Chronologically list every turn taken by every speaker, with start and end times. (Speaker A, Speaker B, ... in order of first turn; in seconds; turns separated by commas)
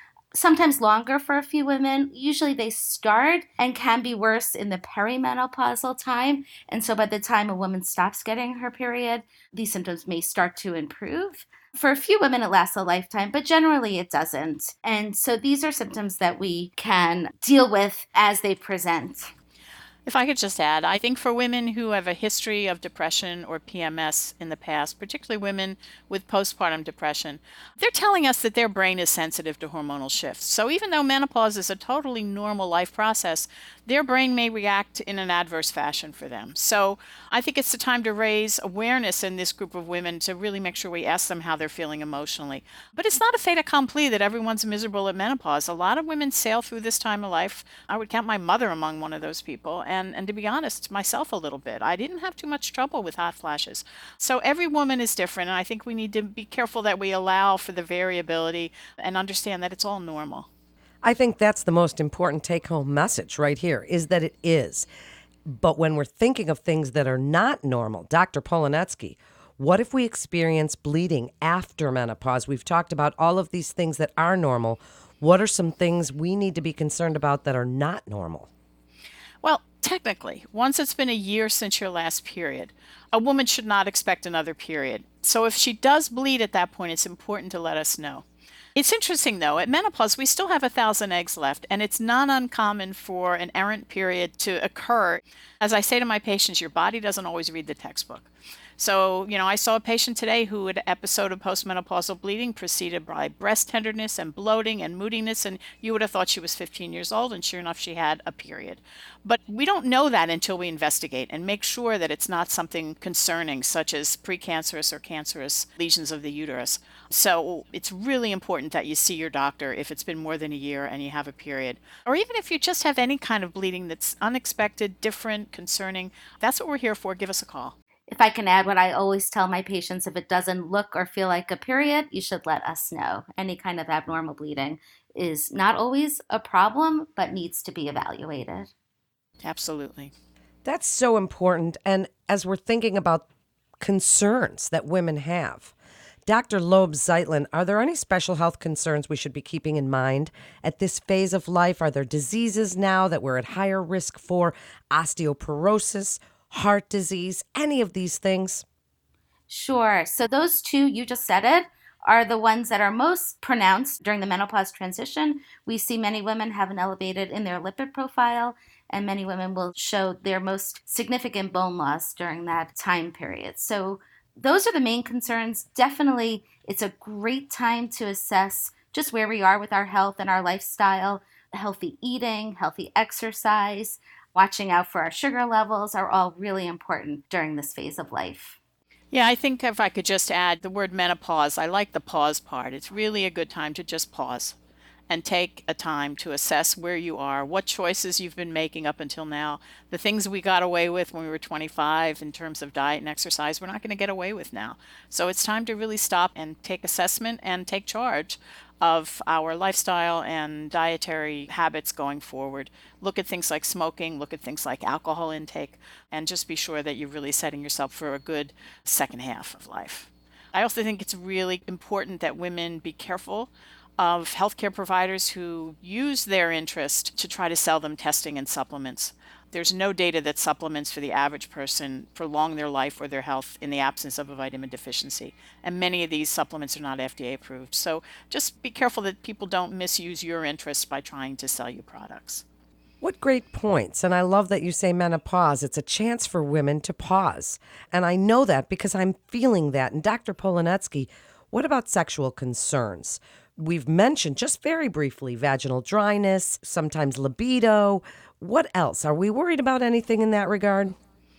Speaker A: 0.3-19.3, Speaker B: 20.1-60.5, Speaker C: 61.0-64.9, Speaker C: 65.5-78.5, Speaker B: 79.4-88.2, Speaker B: 88.8-127.8, Speaker A: 128.1-138.7, Speaker B: 139.4-140.1, Speaker C: 140.7-143.3, Speaker C: 143.8-145.7, Speaker C: 146.3-158.7, Speaker A: 159.5-188.6, Speaker B: 189.1-194.6, Speaker B: 195.1-242.4, Speaker C: 243.0-261.0